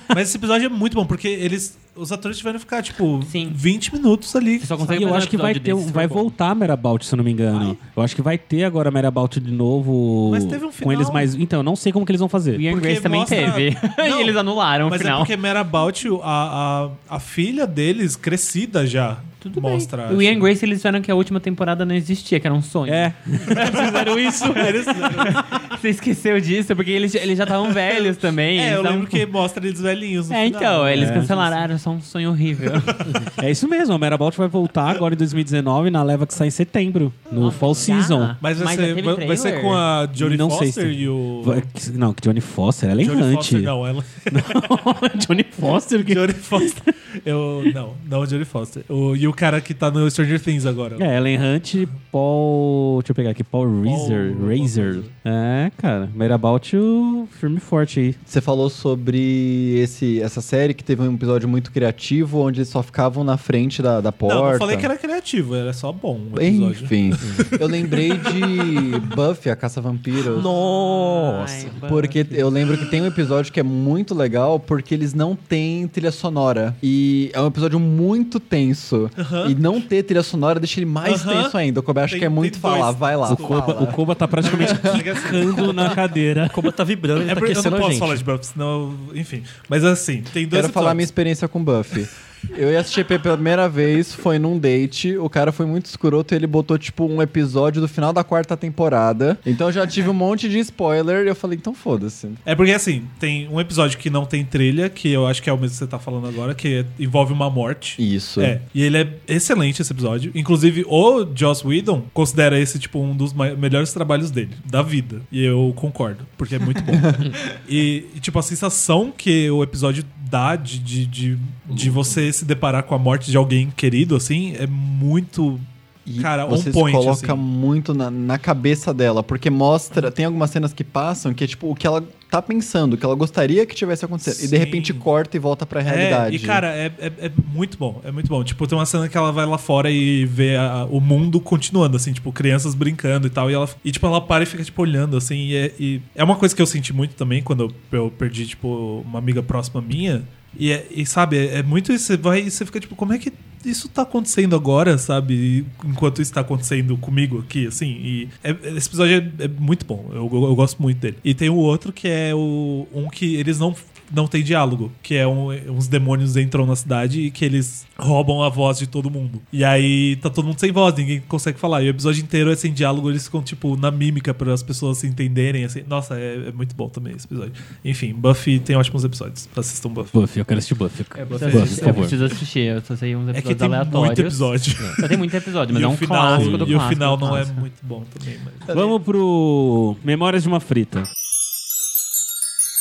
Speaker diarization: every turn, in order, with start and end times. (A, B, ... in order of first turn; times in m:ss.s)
0:00.1-0:05.0 A
0:03.2-0:03.6 B
0:04.6-0:06.3 B
0:04.9-0:12.6 C
0:10.3-0:11.3 A
0:12.5-0:15.3 B
0:12.7-0:20.5 A
0:19.4-0:29.2 B
0:22.9-0:25.5 C
0:23.5-0:25.4 A
0:27.7-0:31.7 A
0:30.3-0:33.2 B
0:31.0-0:31.3 C
0:32.9-0:33.2 A
0:33.4-0:38.4 C
0:37.4-0:39.8 B
0:37.4-0:37.9 A
0:38.4-0:41.7 A
0:40.2-0:43.7 C
0:43.0-0:44.8 A
0:44.3-0:46.9 C
0:46.0-0:51.0 A
0:51.0-0:58.2 C
0:53.8-0:55.1 A
0:58.3-1:04.9 D
1:04.2-1:07.0 A
1:06.4-1:10.5 D
1:07.2-1:07.5 E
1:10.2-1:11.8 E
1:10.3-1:12.2 B
1:11.9-1:25.1 D
1:19.2-1:19.6 A
1:21.0-1:26.0 A
1:23.2-1:26.7 C
1:26.5-1:28.2 E
1:27.2-1:31.1 A
1:30.5-1:42.4 D
1:42.4-2:05.6 A
1:48.0-1:48.6 D
2:06.1-2:16.6 D
2:06.2-2:07.4 A
2:14.3-2:15.1 A
2:15.8-3:00.2 A
3:00.1-3:02.2 C
3:01.3-3:02.4 A
3:01.3-3:07.6 B
3:03.3-3:08.7 A
3:08.7-3:11.1 C